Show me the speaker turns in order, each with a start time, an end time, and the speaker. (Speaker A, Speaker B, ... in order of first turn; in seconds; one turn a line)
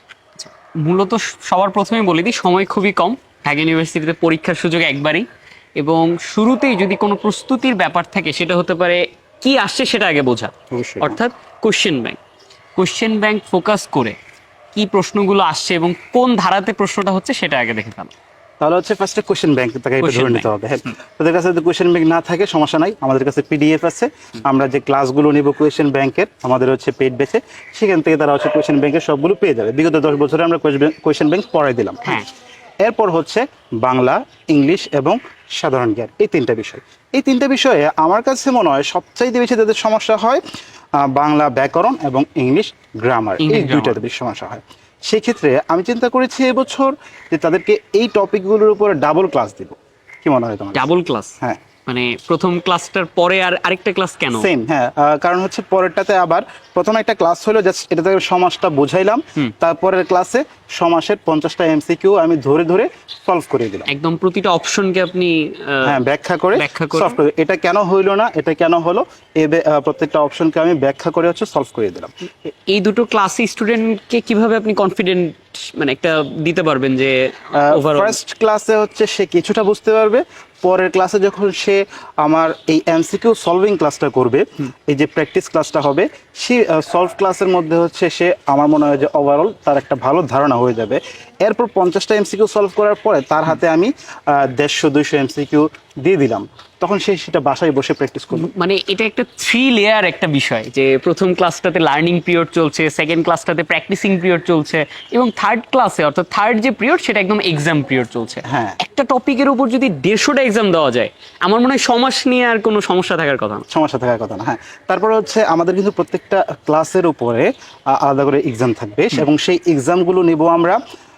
Speaker A: 0.4-12.2
Speaker B: 10.7-11.2
Speaker A: 12.8-14.2
Speaker A: 14.7-18.1
Speaker B: 18.6-32.2
Speaker A: 20.0-20.5
Speaker B: 32.8-40.4
Speaker B: 41.0-50.9
Speaker A: 43.4-44.0
Speaker A: 50.7-54.5
Speaker B: 54.3-63.9
Speaker A: 63.9-66.0
Speaker B: 65.8-72.1
Speaker A: 66.5-67.2
Speaker A: 72.5-78.2
Speaker B: 77.5-98.5
Speaker A: 98.3-113.7
Speaker B: 108.5-108.8
Speaker B: 113.7-120.8